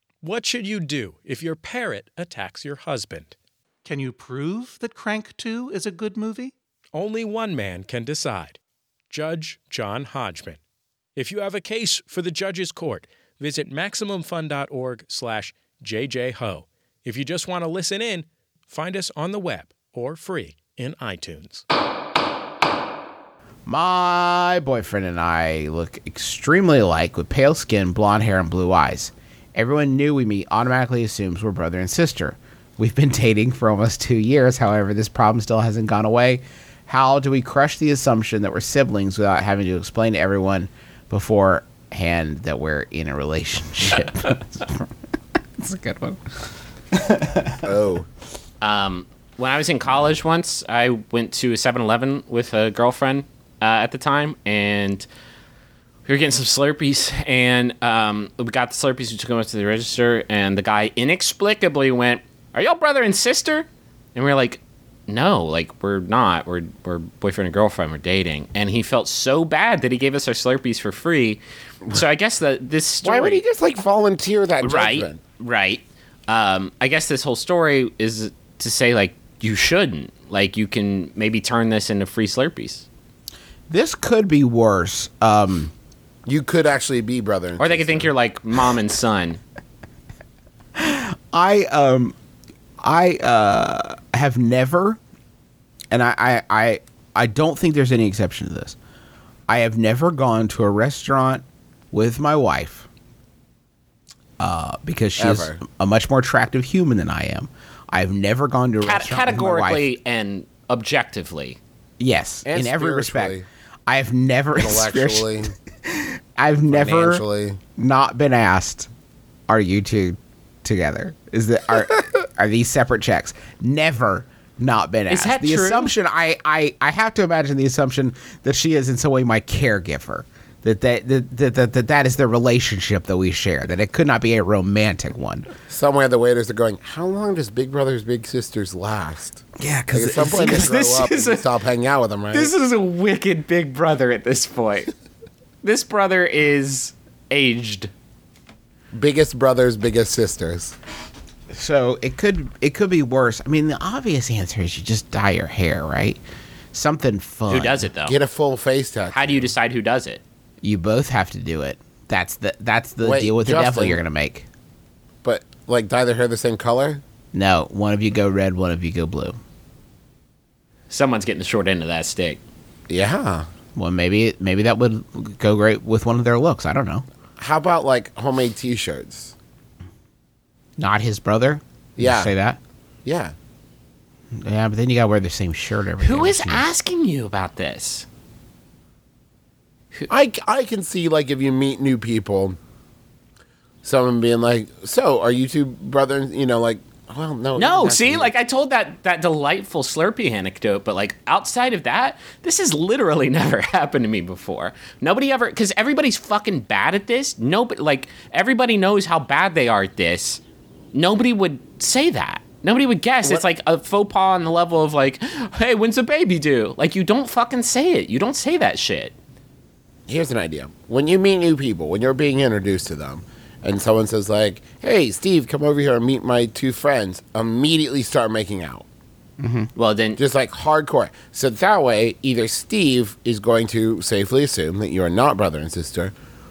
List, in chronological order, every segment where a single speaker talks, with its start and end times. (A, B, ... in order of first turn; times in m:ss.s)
0:00.2-0:03.3 A
0:03.8-0:06.5 B
0:06.9-0:08.6 A
0:09.1-0:10.6 A
0:11.2-0:21.6 A
0:23.6-0:44.9 C
0:45.6-0:47.7 C
0:47.6-0:48.0 D
0:48.6-0:55.0 E
0:56.0-1:11.4 E
1:11.9-1:13.4 E
1:13.0-1:15.2 D
1:14.6-1:22.8 E
1:23.7-1:25.7 C
1:26.2-1:28.1 D
1:27.6-1:29.4 E
1:30.8-1:32.1 C
1:32.8-1:35.0 C
1:35.9-1:38.8 C
1:39.5-1:42.9 C
1:44.4-1:49.9 C
1:45.2-1:45.6 D
1:48.8-1:51.6 E
1:52.0-1:57.2 C
1:52.4-1:53.4 D
1:54.5-1:55.5 D
1:56.7-1:57.6 D
1:57.8-1:58.9 C
1:59.5-2:15.5 C
2:05.1-2:05.9 E
2:15.7-2:22.5 D
2:19.6-2:20.8 C
2:20.3-2:21.5 E
2:22.3-2:24.9 E
2:25.6-2:27.9 E
2:28.9-2:30.8 D
2:31.5-2:36.2 C
2:36.7-2:37.9 C
2:37.5-2:38.2 E
2:38.0-2:39.5 D
2:39.1-2:40.2 E
2:40.6-2:44.5 C
2:43.0-2:44.0 D
2:45.2-2:47.0 D
2:47.3-2:49.4 C
2:50.9-2:52.4 E
2:52.9-2:53.5 D
2:53.7-2:57.0 C
2:57.4-2:59.3 D
3:00.8-3:02.6 C
3:02.0-3:02.3 D
3:03.0-3:03.3 D
3:04.3-3:06.7 C
3:06.0-3:08.0 E
3:10.1-3:12.6 D
3:13.8-3:18.3 D
3:17.6-3:30.4 E
3:30.9-3:39.1 E
3:40.1-3:48.8 D
3:49.4-3:49.7 C
3:49.8-3:50.2 E
3:50.2-3:56.1 D